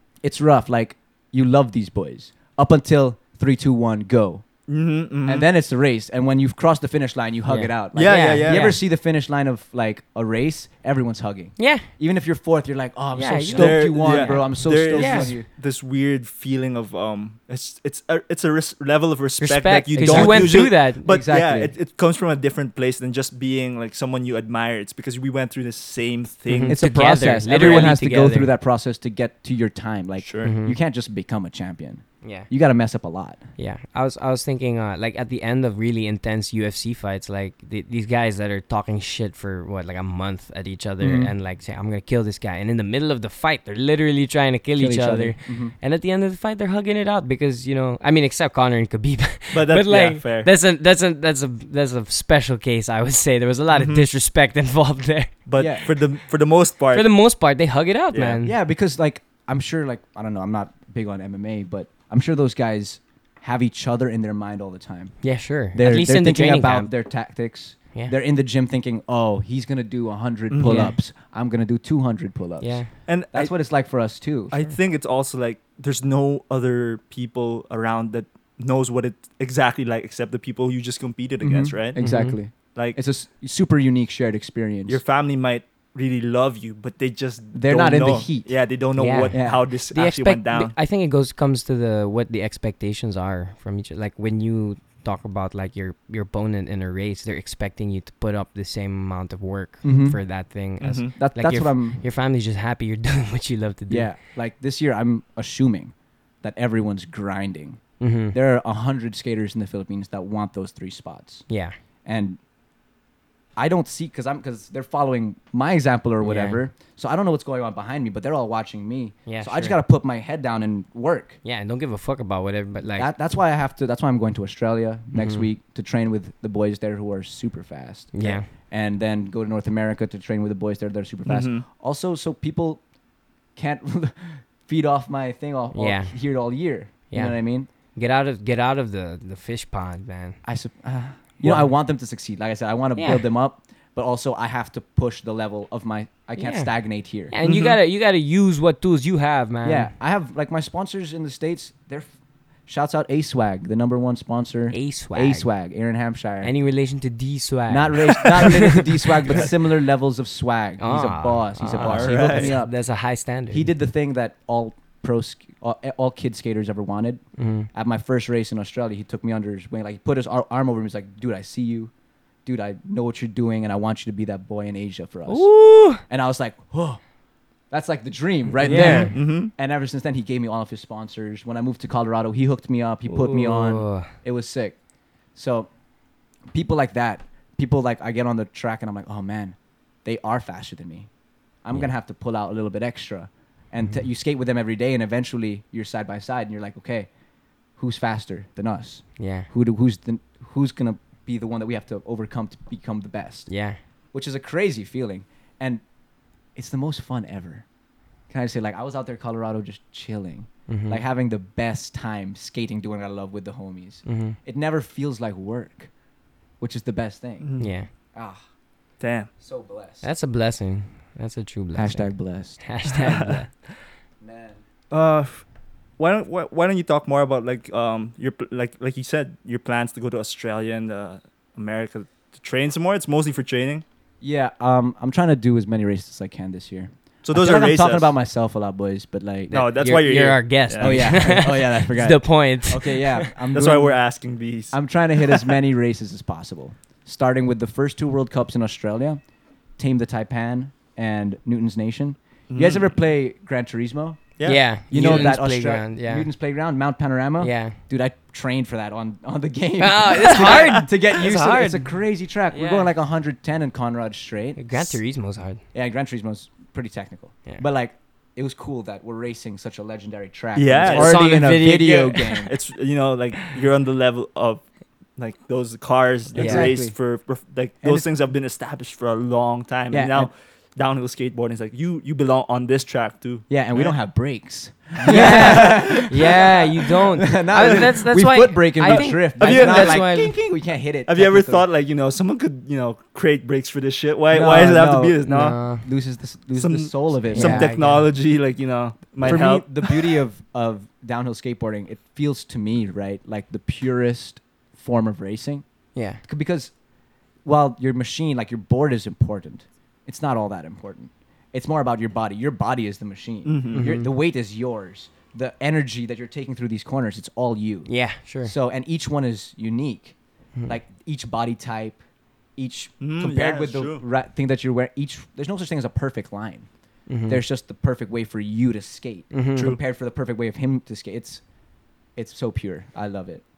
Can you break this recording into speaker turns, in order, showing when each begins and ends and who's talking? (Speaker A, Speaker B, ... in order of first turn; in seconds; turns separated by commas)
Speaker A: 0.2-4.5, Speaker B: 4.7-5.5, Speaker A: 5.3-15.5, Speaker C: 7.5-8.8, Speaker B: 7.9-8.7, Speaker C: 11.6-11.9, Speaker C: 13.2-15.3, Speaker B: 13.5-27.9, Speaker C: 19.4-21.1, Speaker A: 19.9-21.7, Speaker C: 26.5-28.5, Speaker A: 26.7-33.4, Speaker B: 30.2-30.5, Speaker C: 30.4-30.8, Speaker C: 32.2-32.5, Speaker C: 33.6-55.3, Speaker A: 41.0-41.3, Speaker A: 44.8-45.8, Speaker B: 49.5-50.5, Speaker B: 53.7-54.1, Speaker B: 55.5-57.1, Speaker A: 55.6-55.9, Speaker C: 56.9-58.5, Speaker B: 58.1-58.4, Speaker A: 58.4-65.2, Speaker C: 65.2-66.9, Speaker A: 65.7-74.5, Speaker B: 70.5-70.9, Speaker C: 70.6-71.0, Speaker C: 72.6-72.9, Speaker B: 73.1-73.5, Speaker B: 74.5-82.2, Speaker A: 81.4-85.0, Speaker C: 82.0-82.4, Speaker B: 84.9-90.7, Speaker A: 87.5-88.5, Speaker C: 89.0-104.1, Speaker A: 89.3-89.7, Speaker A: 99.8-100.2, Speaker B: 100.8-101.1, Speaker A: 101.2-102.0, Speaker A: 103.9-107.8, Speaker C: 108.0-108.4, Speaker A: 108.3-111.5, Speaker C: 111.5-111.8, Speaker A: 112.0-112.4, Speaker A: 113.6-121.4, Speaker C: 116.2-116.6, Speaker C: 119.3-119.8, Speaker C: 121.4-123.1, Speaker A: 123.0-132.8, Speaker C: 125.1-125.5, Speaker C: 128.1-128.5, Speaker B: 131.3-131.6, Speaker A: 133.6-137.7, Speaker C: 135.7-136.1, Speaker C: 137.1-137.4, Speaker C: 137.9-140.4, Speaker A: 140.4-147.3, Speaker C: 143.0-143.2, Speaker C: 146.4-146.7, Speaker C: 147.3-149.9, Speaker B: 147.4-147.8, Speaker A: 149.6-152.1, Speaker A: 152.7-156.5, Speaker C: 154.7-155.5, Speaker C: 156.4-159.5, Speaker A: 157.7-162.7, Speaker C: 160.8-163.7, Speaker B: 161.8-162.5, Speaker A: 163.5-171.9, Speaker C: 167.4-167.7, Speaker A: 172.4-177.0, Speaker C: 175.3-176.0, Speaker A: 177.7-184.8, Speaker B: 178.6-179.5, Speaker C: 178.7-179.2, Speaker C: 183.1-184.1, Speaker A: 185.3-185.7, Speaker A: 186.5-191.1, Speaker A: 191.6-197.1, Speaker A: 197.8-203.5, Speaker C: 199.2-199.5, Speaker C: 203.5-203.8, Speaker A: 204.1-205.8, Speaker A: 206.6-207.7, Speaker A: 208.3-215.9, Speaker C: 210.7-211.0, Speaker C: 214.1-214.4, Speaker A: 216.6-217.5, Speaker B: 217.4-217.7, Speaker C: 217.6-217.9, Speaker A: 218.2-218.4, Speaker B: 219.0-219.3, Speaker A: 219.4-220.1, Speaker C: 220.0-223.5, Speaker A: 221.8-222.6, Speaker B: 222.9-223.4, Speaker A: 224.2-224.6, Speaker B: 224.9-225.4, Speaker B: 226.0-233.8, Speaker A: 234.2-239.7, Speaker B: 237.2-238.1, Speaker B: 239.5-241.4, Speaker C: 239.7-243.3, Speaker A: 240.8-244.0, Speaker B: 243.5-244.8, Speaker A: 244.7-249.2, Speaker B: 245.3-245.5, Speaker A: 249.8-254.2, Speaker B: 252.5-252.9, Speaker B: 254.4-255.3, Speaker C: 254.4-256.3, Speaker A: 254.9-265.0, Speaker C: 257.4-257.8, Speaker C: 259.8-261.9, Speaker B: 260.4-260.8, Speaker C: 262.5-262.9, Speaker C: 264.6-265.6, Speaker A: 265.7-272.5, Speaker B: 270.6-274.6, Speaker C: 270.8-272.4, Speaker B: 275.2-284.0, Speaker A: 276.3-277.0, Speaker C: 276.4-276.7, Speaker A: 277.8-278.1, Speaker A: 279.9-280.3, Speaker A: 283.5-291.7, Speaker B: 285.0-286.4, Speaker C: 285.1-290.3, Speaker B: 287.6-287.9, Speaker B: 288.9-290.1, Speaker B: 291.1-295.6, Speaker A: 294.3-297.8, Speaker C: 295.2-295.9, Speaker B: 296.6-300.2, Speaker C: 297.3-298.1, Speaker A: 299.2-305.6, Speaker C: 305.9-306.2, Speaker A: 306.2-306.7, Speaker A: 307.4-317.9, Speaker B: 313.5-313.9, Speaker C: 313.7-314.1, Speaker C: 317.9-318.5, Speaker A: 318.4-322.0, Speaker A: 322.6-326.7, Speaker B: 323.0-324.0, Speaker C: 327.1-327.4, Speaker A: 327.3-331.4, Speaker C: 329.3-329.7, Speaker A: 332.2-333.4